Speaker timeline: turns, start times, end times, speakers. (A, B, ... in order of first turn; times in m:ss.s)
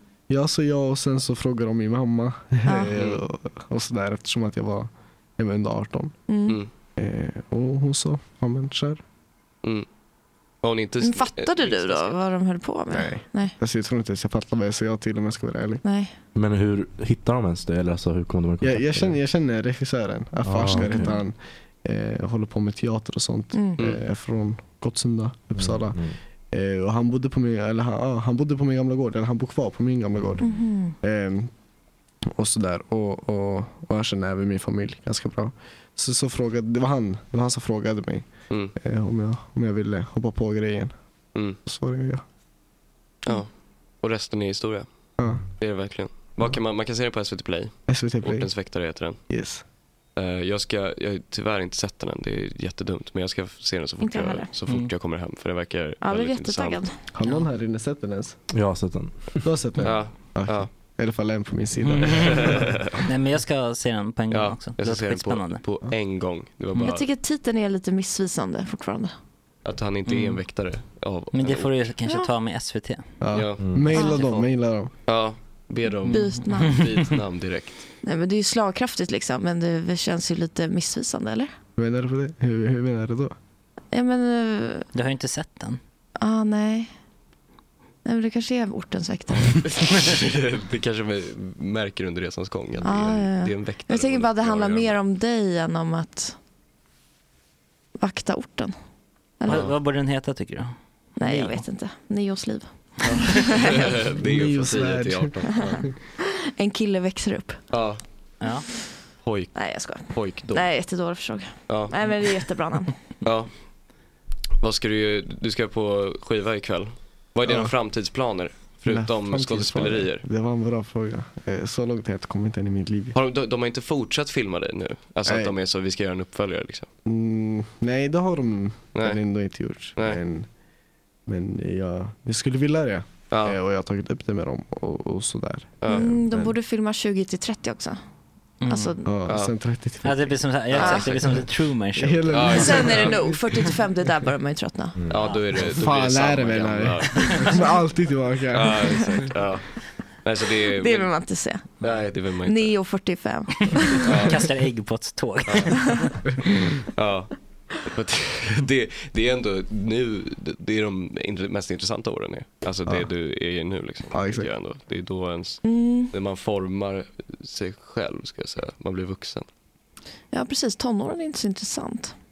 0:00.3-0:06.1 A
0:02.7-0:02.9 B
0:02.9-0:03.2 C
0:06.3-0:06.6 B
0:07.0-0:09.0 A
0:10.6-0:12.2 C
0:11.0-0:13.6 B
0:12.9-0:15.8 A
0:15.8-0:16.1 B
0:16.4-0:19.2 D
0:18.6-0:26.0 A
0:20.4-0:21.2 D
0:23.5-0:23.8 B
0:25.6-0:26.2 D
0:26.5-0:30.5 A
0:30.4-0:31.0 B
0:31.0-0:31.5 A
0:32.4-0:40.9 A
0:41.6-0:42.2 A
0:44.0-0:44.9 C
0:45.2-0:45.4 A
0:45.6-0:49.2 C
0:47.9-0:48.5 A
0:49.3-0:49.6 A
0:50.2-0:56.8 C
0:54.0-0:54.5 B
0:56.0-0:57.0 B
0:57.1-0:58.4 A
0:58.5-0:59.4 D
0:59.4-1:02.7 A
0:59.8-1:00.7 C
1:01.8-1:05.6 E
1:02.0-1:03.0 C
1:04.3-1:07.1 C
1:06.8-1:09.1 B
1:09.6-1:11.8 C
1:10.1-1:10.4 E
1:11.3-1:13.1 E
1:13.2-1:14.9 A
1:13.3-1:14.5 C
1:13.9-1:14.3 B
1:14.0-1:14.3 E
1:15.1-1:17.8 C
1:16.0-1:16.8 B
1:16.1-1:17.1 E
1:18.0-1:21.5 B
1:21.8-1:23.3 A
1:23.9-1:24.9 B
1:24.9-1:25.8 E
1:26.2-1:26.9 B
1:28.0-1:29.6 B
1:29.7-1:35.0 C
1:32.8-1:36.4 B
1:38.0-1:38.7 B
1:39.4-1:41.6 E
1:41.2-1:43.7 B
1:43.1-1:45.8 C
1:44.2-1:45.4 A
1:46.6-1:47.6 B
1:47.7-1:48.0 C
1:48.4-1:48.6 E
1:49.2-1:50.7 C
1:49.6-1:52.9 B
1:51.7-1:51.9 C
1:53.2-1:53.5 C
1:54.6-2:00.3 C
1:57.4-1:57.7 A
1:58.9-2:03.1 A
2:03.1-2:06.9 C
2:05.2-2:05.5 A
2:07.1-2:10.5 A
2:08.9-2:09.2 C
2:10.0-2:10.2 C
2:11.3-2:16.6 A
2:13.3-2:13.6 C
2:15.8-2:16.2 C
2:15.9-2:18.0 B
2:18.6-2:19.0 E
2:18.7-2:19.1 B
2:19.0-2:20.5 A
2:19.3-2:19.6 C
2:20.0-2:22.9 E
2:20.7-2:21.4 C
2:20.8-2:21.2 B
2:22.0-2:23.4 A
2:22.3-2:23.2 C
2:22.5-2:25.0 B
2:25.0-2:25.2 D
2:25.1-2:27.7 C
2:25.6-2:28.8 A
2:28.5-2:29.7 C
2:30.2-2:31.1 C
2:30.7-2:31.7 B
2:31.8-2:32.7 C
2:32.4-2:34.1 B
2:34.0-2:34.4 C
2:34.0-2:36.1 E
2:35.5-2:35.7 C
2:36.9-2:49.5 C
2:44.1-2:44.5 A
2:45.6-2:46.1 B
2:50.3-2:52.1 B